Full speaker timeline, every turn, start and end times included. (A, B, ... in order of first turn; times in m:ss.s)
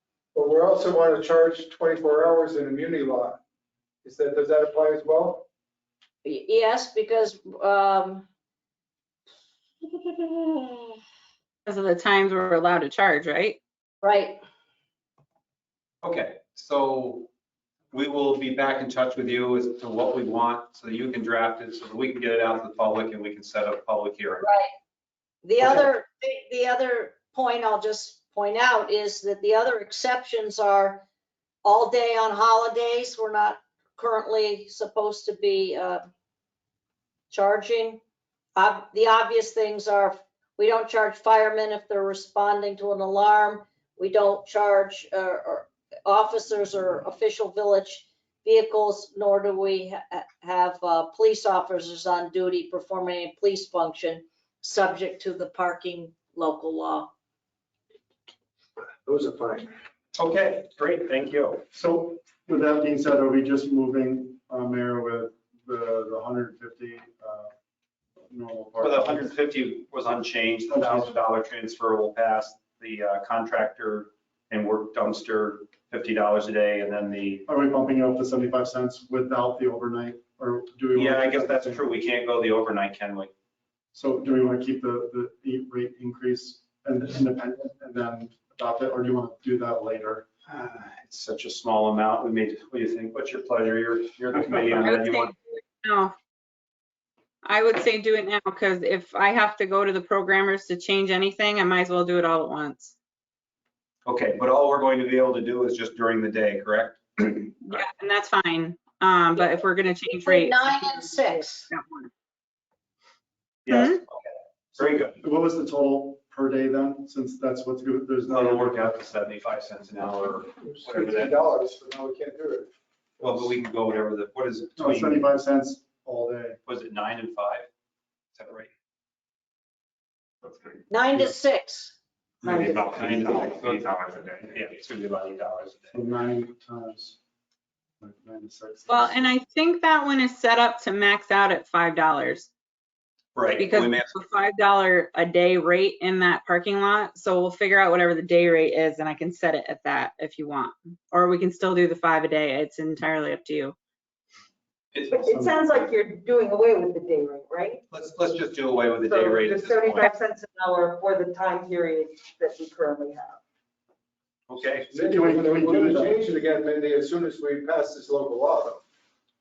0:00.3-0:03.4 A
0:04.0-0:05.4 A
0:06.2-0:08.3 B
0:09.8-0:10.8 B
0:11.6-0:13.6 C
0:14.0-0:14.4 B
0:16.0-0:17.3 D
0:17.9-0:24.4 D
0:24.4-0:24.7 B
0:25.4-0:31.0 B
0:31.6-0:36.0 B
0:37.3-0:38.0 B
0:38.6-0:57.1 B
0:59.0-0:59.7 A
1:00.1-1:01.6 D
1:01.7-1:07.5 E
1:08.3-1:09.3 E
1:08.8-1:17.4 D
1:10.7-1:11.1 E
1:17.5-1:21.8 E
1:20.9-1:23.3 D
1:23.9-1:30.2 E
1:30.5-1:35.3 D
1:34.8-1:36.1 C
1:37.4-1:42.9 C
1:44.0-1:47.8 D
1:47.6-1:51.0 C
1:50.2-1:51.7 B
1:51.7-1:52.1 C
1:53.6-1:55.2 D
1:53.7-1:54.0 C
1:54.8-1:58.9 E
1:58.3-2:01.4 D
2:00.6-2:03.4 A
2:03.2-2:05.3 D
2:04.8-2:06.6 E
2:06.6-2:07.7 D
2:08.4-2:08.7 D
2:10.9-2:12.0 B
2:12.4-2:14.8 F
2:12.8-2:13.8 D
2:14.4-2:16.0 D
2:15.9-2:17.2 E
2:18.0-2:19.1 E
2:18.9-2:22.5 C
2:23.3-2:24.1 D
2:23.6-2:33.8 C
2:34.9-2:35.7 D
2:35.0-2:37.8 G
2:37.9-2:40.1 D
2:39.0-2:43.4 G
2:44.5-2:44.9 D
2:44.9-2:48.8 A
2:45.0-2:46.2 E